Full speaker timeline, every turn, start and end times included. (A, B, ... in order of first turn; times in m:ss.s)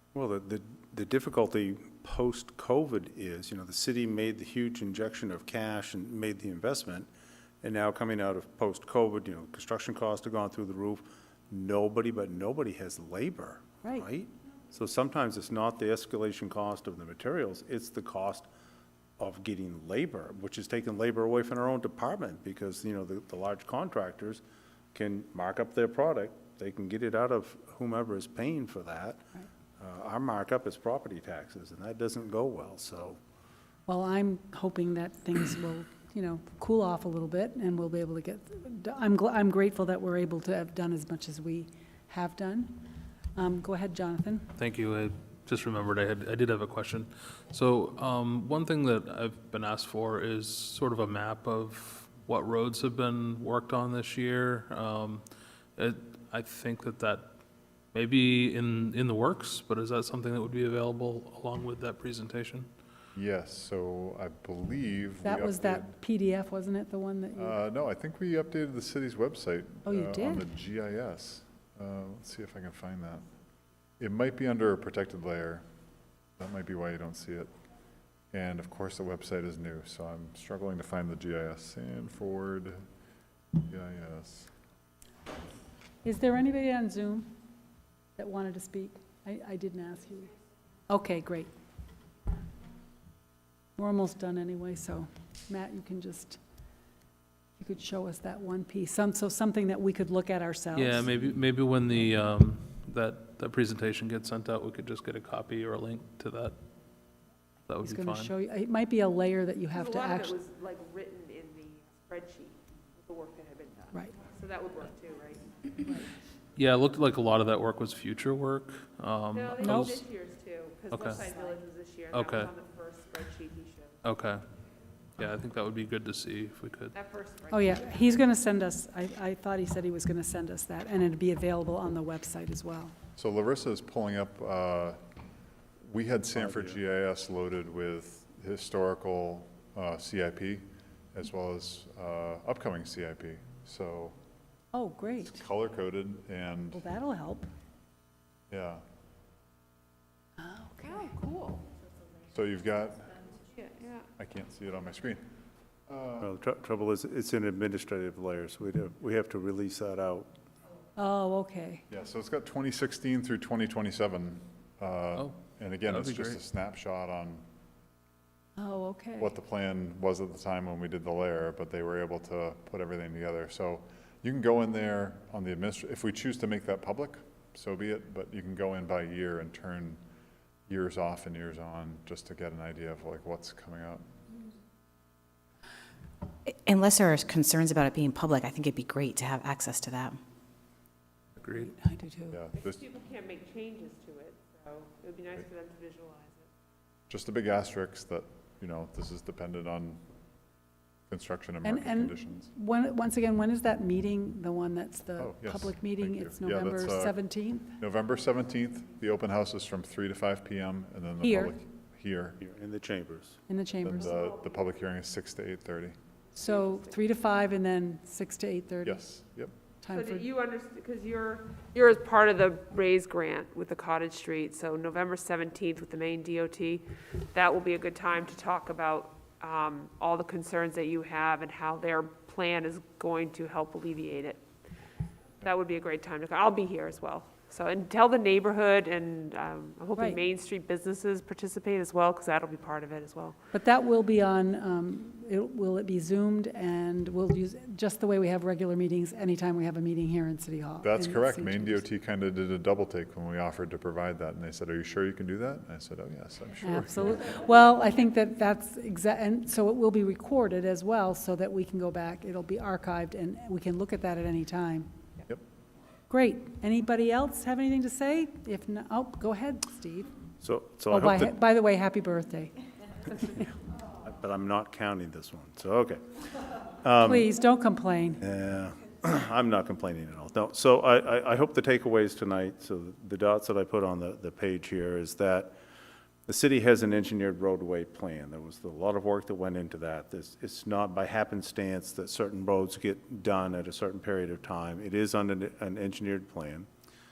0:00.1-0:07.1 A
0:07.6-0:18.5 A
0:19.2-0:24.4 A
0:24.9-0:29.2 A
0:29.8-0:33.2 A
0:33.9-0:42.8 B
0:43.4-0:44.5 B
0:44.6-0:55.2 C
0:55.8-0:57.3 C
0:57.9-1:02.7 C
1:03.1-1:05.9 D
1:05.2-1:07.5 B
1:07.3-1:13.2 D
1:09.8-1:10.4 B
1:14.0-1:15.6 D
1:16.4-1:17.5 D
1:18.3-1:22.8 D
1:23.6-1:24.5 D
1:26.0-1:27.3 B
1:28.2-1:30.3 B
1:30.9-1:31.5 B
1:33.8-1:36.4 B
1:37.6-1:41.1 B
1:40.7-1:46.6 C
1:47.7-1:48.3 C
1:47.8-1:50.3 B
1:49.7-1:55.9 E
1:55.8-1:56.1 B
1:56.6-2:00.0 C
1:59.3-2:03.9 E
1:59.6-1:59.9 B
2:00.9-2:01.3 C
2:02.1-2:02.5 C
2:04.0-2:04.4 C
2:05.2-2:06.9 C
2:06.9-2:08.2 E
2:07.5-2:12.9 B
2:13.2-2:15.0 D
2:15.8-2:24.2 D
2:16.4-2:16.8 A
2:24.7-2:25.4 B
2:25.2-2:26.8 D
2:26.7-2:27.5 B
2:28.5-2:28.8 D
2:30.4-2:31.1 B
2:30.8-2:31.7 E
2:32.3-2:33.3 D
2:33.5-2:34.1 E
2:34.2-2:35.2 D
2:35.9-2:36.3 D
2:36.2-2:40.3 A
2:41.0-2:41.8 B
2:41.9-2:47.4 D
2:45.8-2:46.4 C
2:48.6-2:49.3 B
2:49.2-3:00.0 D
3:00.7-3:04.0 D
3:06.6-3:10.2 F
3:11.4-3:11.7 C
3:11.6-3:12.4 B
3:12.3-3:12.8 D
3:12.6-3:16.5 E
3:17.1-3:20.0 D
3:21.1-3:22.5 D
3:21.6-3:27.7 B
3:25.2-3:27.2 D
3:27.8-3:32.4 D
3:31.2-3:31.5 B
3:32.4-3:33.4 A
3:33.5-3:34.2 B
3:33.8-3:35.9 D
3:36.4-3:39.0 B
3:36.4-3:36.9 E
3:38.8-3:39.5 D
3:39.8-3:40.3 B
3:39.9-3:54.4 E
3:55.4-4:03.4 E
4:03.5-4:11.8 B
4:10.8-4:17.2 D
4:16.6-4:24.9 B
4:26.1-4:30.1 B
4:30.4-4:31.4 A
4:30.9-4:32.5 B
4:34.0-4:37.3 A
4:37.0-4:38.2 B
4:38.2-4:45.5 A
4:46.3-4:56.7 A